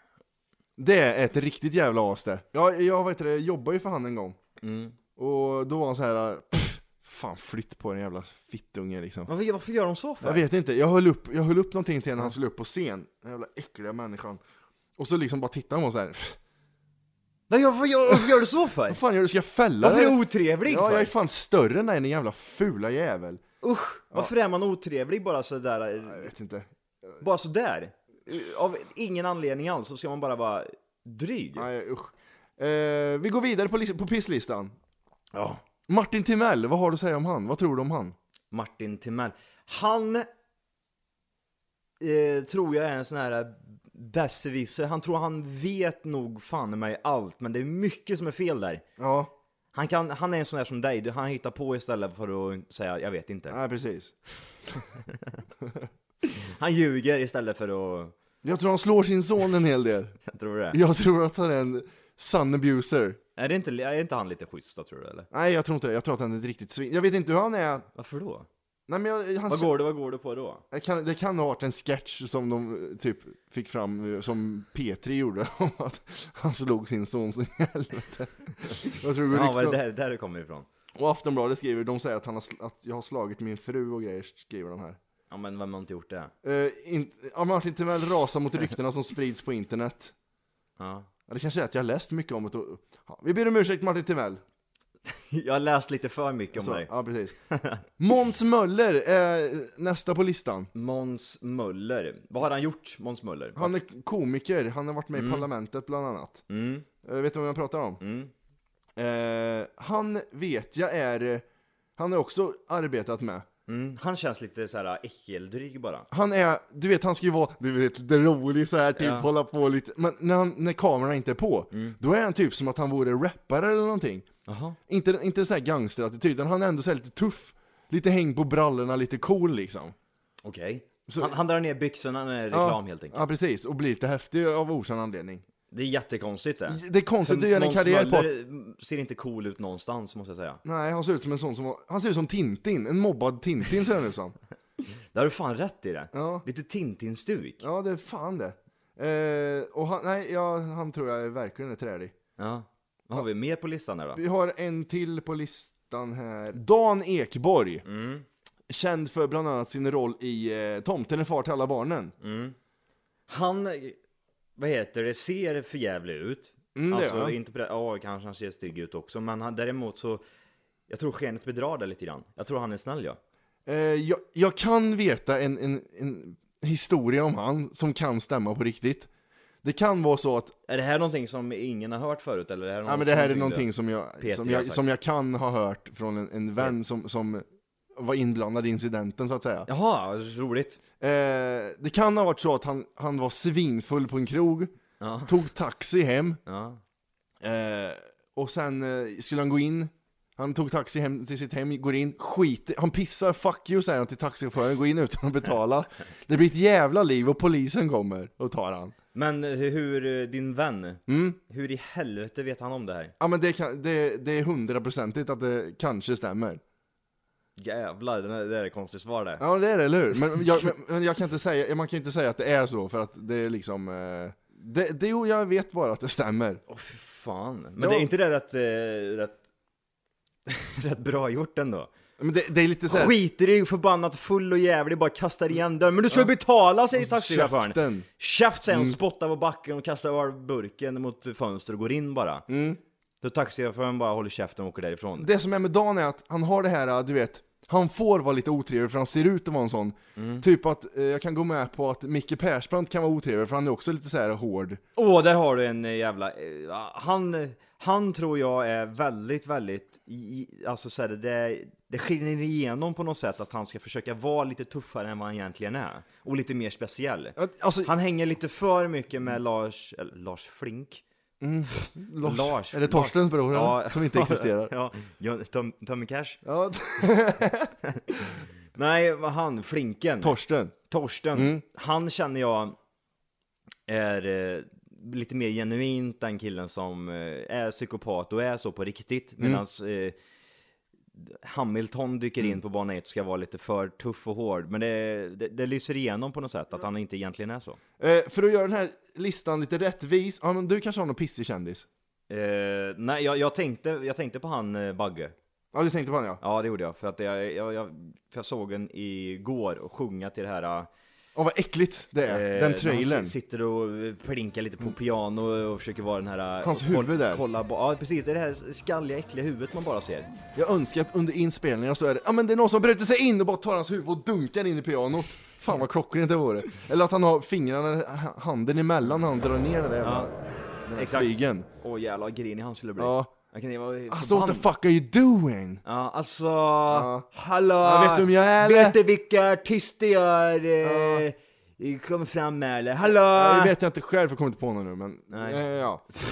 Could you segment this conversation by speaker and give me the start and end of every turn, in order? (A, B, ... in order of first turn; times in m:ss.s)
0:00.8-0:04.4 A
0:04.6-0:05.0 B
0:05.2-0:09.3 A
0:09.3-0:10.4 B
0:10.2-0:14.4 A
0:15.0-0:16.4 A
0:17.5-0:19.0 B
0:18.9-0:23.4 A
0:19.8-0:21.1 B
0:23.6-0:26.3 B
0:26.0-0:27.2 A
0:27.2-0:31.7 B
0:31.6-0:34.8 A
0:35.3-0:35.6 B
0:35.9-0:38.2 A
0:38.5-0:40.3 B
0:42.0-0:48.8 B
0:49.0-0:49.3 A
0:49.7-0:53.6 B
0:53.5-0:54.2 A
0:55.6-0:55.9 A
0:56.3-0:58.1 B
0:58.4-1:00.2 A
1:00.3-1:00.8 B
1:00.7-1:03.2 A
1:03.4-1:05.3 B
1:05.3-1:07.9 A
1:07.9-1:08.5 B
1:08.9-1:09.8 A
1:09.5-1:10.6 B
1:10.7-1:19.8 A
1:19.3-1:20.7 B
1:20.9-1:25.0 A
1:25.3-1:26.3 B
1:26.4-1:30.1 A
1:30.8-1:31.1 B
1:31.3-1:34.4 A
1:35.1-1:36.9 B
1:36.5-1:37.4 A
1:37.5-1:37.8 B
1:38.0-1:40.7 A
1:40.7-1:43.7 B
1:43.6-1:46.4 A
1:45.1-1:45.5 B
1:46.5-1:46.9 B
1:47.0-1:48.0 A
1:48.0-1:48.3 B
1:49.0-1:51.4 A
1:52.0-1:53.4 A
1:53.7-1:56.1 B
1:56.1-2:04.3 A
1:59.0-1:59.3 B
2:04.4-2:04.8 B
2:04.9-2:09.9 A
2:10.4-2:13.2 B
2:11.1-2:11.4 A
2:12.5-2:15.4 A
2:15.7-2:20.6 B
2:16.7-2:18.3 A
2:20.6-2:24.4 A
2:25.1-2:27.6 B
2:26.1-2:26.4 A
2:27.6-2:32.1 A
2:32.4-2:34.2 B
2:34.1-2:37.8 A
2:37.8-2:38.2 B
2:38.7-2:42.1 A
2:42.2-2:42.6 B
2:43.3-2:44.0 B
2:44.6-2:50.2 B
2:46.8-2:47.4 A
2:50.9-2:53.2 B
2:53.6-2:59.1 A
2:59.6-3:00.6 A
3:00.7-3:04.8 B
3:02.9-3:09.7 A
3:09.7-3:10.8 B
3:11.0-3:14.7 A
3:15.0-3:15.4 B
3:15.3-3:16.4 A
3:16.4-3:16.8 B
3:17.4-3:28.9 A
3:29.1-3:33.1 B
3:31.1-3:31.4 A
3:33.2-3:36.6 A
3:37.6-3:39.4 B
3:39.4-3:46.6 A
3:46.7-3:49.4 B
3:47.8-3:48.1 A
3:50.5-3:51.9 B
3:52.2-3:53.2 A
3:52.9-4:02.4 B
3:56.9-3:58.1 A
3:58.7-3:59.0 A
4:02.5-4:02.8 A
4:03.2-4:05.3 B
4:05.2-4:14.8 A
4:10.2-4:10.4 B
4:15.0-4:31.0 B
4:27.4-4:27.9 A
4:31.4-4:34.7 A
4:31.7-4:36.4 B
4:36.4-4:38.3 A
4:38.8-4:40.4 B
4:40.2-4:40.7 A
4:40.9-4:42.8 B
4:41.3-4:41.6 A
4:43.9-4:50.1 B
4:51.2-4:57.8 B
4:58.0-5:01.9 A
5:02.3-5:05.4 B
5:05.7-5:06.4 A
5:06.4-5:10.9 B
5:11.4-5:13.4 A
5:12.3-5:20.3 B
5:16.6-5:17.4 A
5:20.5-5:30.4 A
5:30.0-5:30.3 B
5:30.9-5:31.7 A
5:30.9-5:34.6 B
5:33.0-5:33.3 A
5:34.1-5:35.8 A
5:35.8-5:43.8 B
5:36.9-5:37.3 A
5:37.8-5:39.0 A
5:40.8-5:41.2 A
5:43.1-5:46.1 A
5:45.3-5:45.6 B